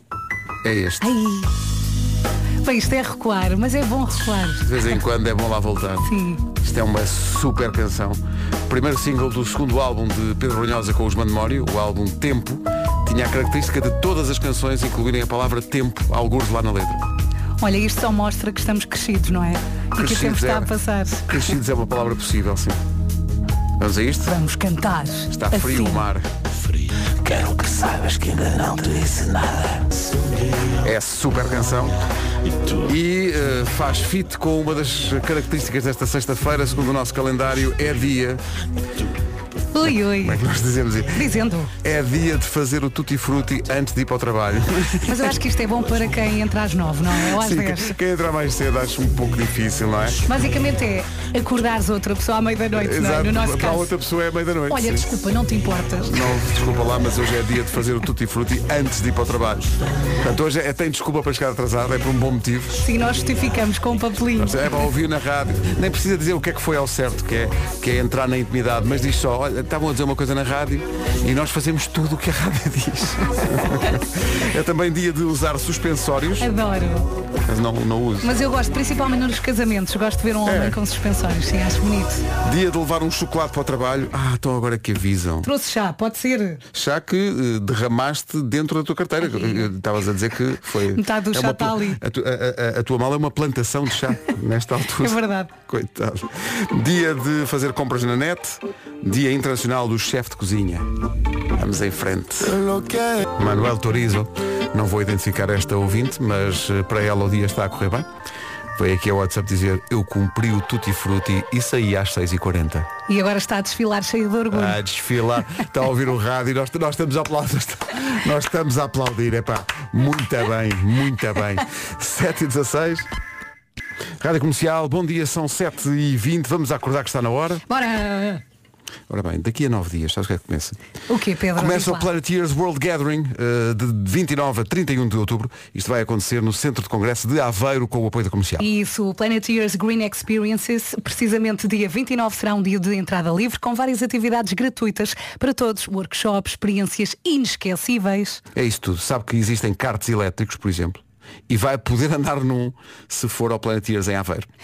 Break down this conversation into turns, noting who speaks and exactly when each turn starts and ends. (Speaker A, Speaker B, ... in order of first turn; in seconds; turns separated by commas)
Speaker A: 0.6-1.1, Speaker B: 1.0-1.5, Speaker B: 2.6-4.7, Speaker A: 4.6-17.0, Speaker B: 6.0-6.4, Speaker B: 17.6-21.5, Speaker A: 20.0-20.7, Speaker A: 21.3-22.8, Speaker A: 23.8-24.3, Speaker B: 24.2-26.0, Speaker A: 25.3-26.3, Speaker A: 27.2-29.9, Speaker A: 30.8-32.0, Speaker A: 32.8-38.4, Speaker B: 39.8-40.4, Speaker A: 39.8-45.4, Speaker B: 41.1-41.7, Speaker B: 45.1-47.9, Speaker A: 47.3-50.2, Speaker B: 50.2-53.9, Speaker A: 52.8-55.1, Speaker B: 54.7-56.2, Speaker A: 56.0-62.8, Speaker B: 62.8-64.6, Speaker A: 64.4-76.5, Speaker B: 76.4-77.1, Speaker A: 77.5-78.3, Speaker B: 78.2-82.2, Speaker A: 80.5-80.8, Speaker A: 82.4-85.5, Speaker B: 85.4-86.6, Speaker A: 86.7-100.9, Speaker B: 89.3-89.7, Speaker B: 90.9-92.0, Speaker B: 95.0-95.5, Speaker A: 101.5-102.6, Speaker A: 103.3-108.1, Speaker A: 108.8-112.9, Speaker B: 113.1-114.8, Speaker A: 114.5-123.1, Speaker A: 124.2-127.6, Speaker B: 127.7-128.4, Speaker A: 129.1-130.8, Speaker B: 131.1-132.1, Speaker A: 131.6-138.7, Speaker B: 138.6-148.4, Speaker A: 148.6-154.5